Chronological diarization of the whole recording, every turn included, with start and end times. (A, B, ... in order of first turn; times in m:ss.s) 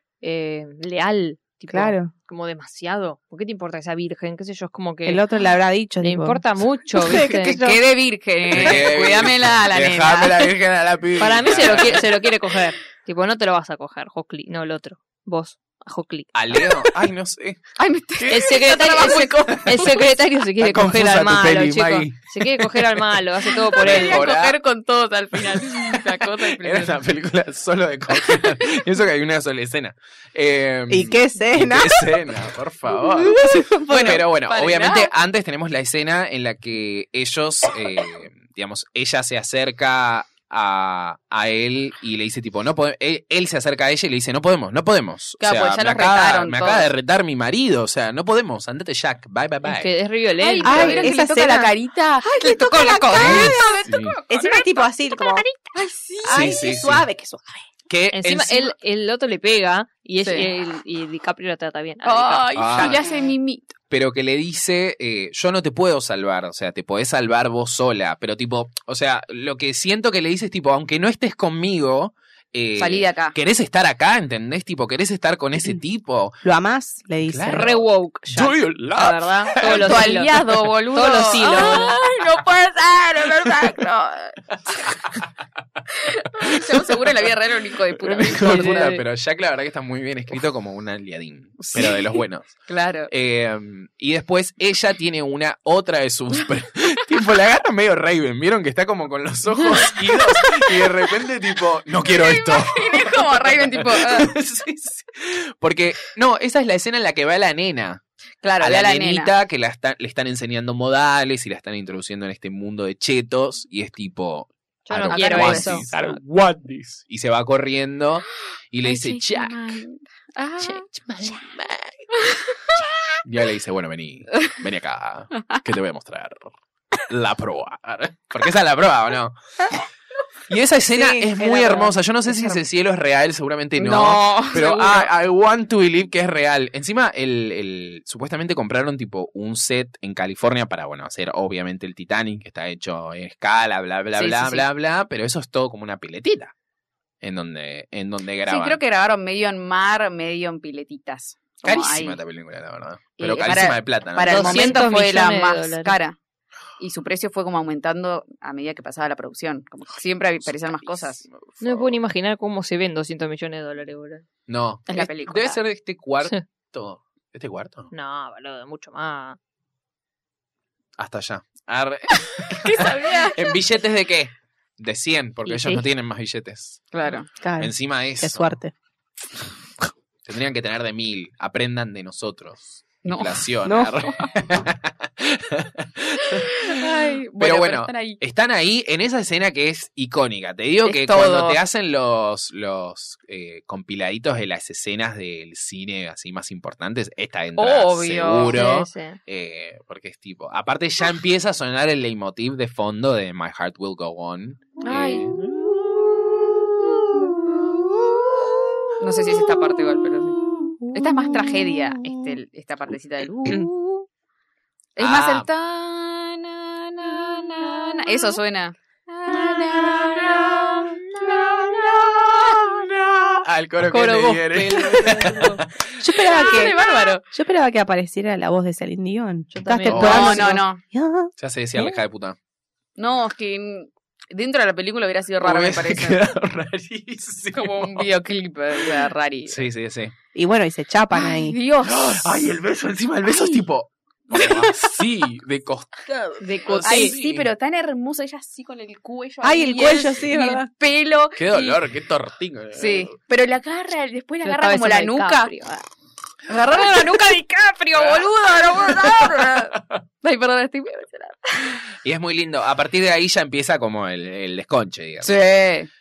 0:00.2-0:05.2 A
0:01.7-0:02.1 B
0:05.1-0:06.4 B
0:06.0-0:07.6 A
0:07.0-0:07.8 B
0:07.2-0:10.5 C
0:08.5-0:12.0 D
0:11.2-0:16.9 A
0:11.5-0:12.0 C
0:16.3-0:18.5 D
0:17.8-0:20.1 C
0:18.3-0:24.2 A
0:20.6-0:23.0 D
0:23.7-0:27.0 C
0:23.8-0:24.6 D
0:25.3-0:49.9 D
0:30.9-0:32.2 B
0:32.9-0:34.2 B
0:33.9-0:35.1 C
0:45.4-0:46.9 C
0:49.6-0:51.1 A
0:50.4-0:54.9 C
0:50.6-0:51.7 B
0:52.4-0:53.6 A
0:52.4-0:53.6 B
0:53.2-0:54.2 D
0:54.3-0:55.5 B
0:55.7-0:56.7 C
0:56.2-0:57.7 B
0:56.3-0:57.0 D
0:57.9-0:58.7 D
0:58.1-1:03.2 A
1:00.2-1:00.5 C
1:02.0-1:03.7 C
1:02.6-1:03.0 D
1:03.9-1:16.4 D
1:12.8-1:13.4 C
1:16.4-1:17.7 B
1:17.2-1:20.4 D
1:17.5-1:22.0 A
1:19.6-1:24.9 C
1:26.0-1:28.9 C
1:26.4-1:27.1 D
1:28.0-1:48.0 D
1:28.3-1:29.0 A
1:31.7-1:33.1 C
1:39.6-1:40.8 C
1:42.0-1:44.3 C
1:48.4-1:49.3 C
1:48.6-1:59.8 D
1:54.9-1:55.9 A
1:55.1-1:56.0 C
1:58.8-2:00.8 C
2:00.7-2:01.4 A
2:01.1-2:02.0 D
2:03.2-2:09.4 D
2:10.5-2:26.5 D
2:10.9-2:11.9 B
2:13.8-2:15.1 C
2:24.1-2:24.6 C
2:27.2-2:28.8 D
2:28.5-2:32.2 C
2:31.6-2:34.8 D
2:33.2-2:36.2 C
2:34.3-2:36.0 A
2:36.8-2:41.2 C
2:40.4-2:42.0 D
2:41.6-2:44.2 A
2:44.5-2:47.9 D
2:44.9-2:45.6 C
2:47.9-2:49.4 A
2:51.0-2:56.8 D
2:52.5-2:53.6 C
2:55.5-2:55.8 A
2:56.9-2:57.3 C
2:57.4-2:58.7 B
2:57.6-2:58.6 D
3:00.2-3:06.8 D
3:03.0-3:03.4 C
3:03.6-3:04.0 B
3:06.4-3:08.2 C
3:07.4-3:25.4 D
3:10.8-3:11.6 C
3:17.6-3:18.7 C
3:18.5-3:19.2 A
3:24.8-3:25.3 C
3:27.4-3:28.1 B
3:29.0-3:34.0 C
3:30.4-3:32.2 B
3:35.0-3:42.9 C
3:35.0-3:35.5 D
3:40.0-3:40.8 D
3:40.4-3:41.5 A
3:42.5-3:46.0 D
3:43.8-3:45.6 A
3:46.0-3:52.0 B
3:46.2-3:47.2 C
3:49.5-3:50.5 A
3:49.9-3:50.5 D
3:49.9-3:50.8 C
3:51.4-3:52.4 D
3:53.0-3:56.3 C
3:55.4-3:58.1 D
3:57.5-3:59.6 C
3:58.8-4:00.1 D
4:00.4-4:01.6 B
4:01.1-4:02.5 C
4:01.8-4:07.5 D
4:03.3-4:03.7 C
4:04.3-4:04.7 C
4:06.4-4:11.8 C
4:06.8-4:07.2 A
4:09.4-4:10.7 B
4:11.4-4:13.2 D
4:12.8-4:15.5 C
4:14.4-4:15.9 A
4:16.5-4:21.8 C
4:17.9-4:20.0 D
4:22.0-4:25.4 D
4:25.2-4:25.9 C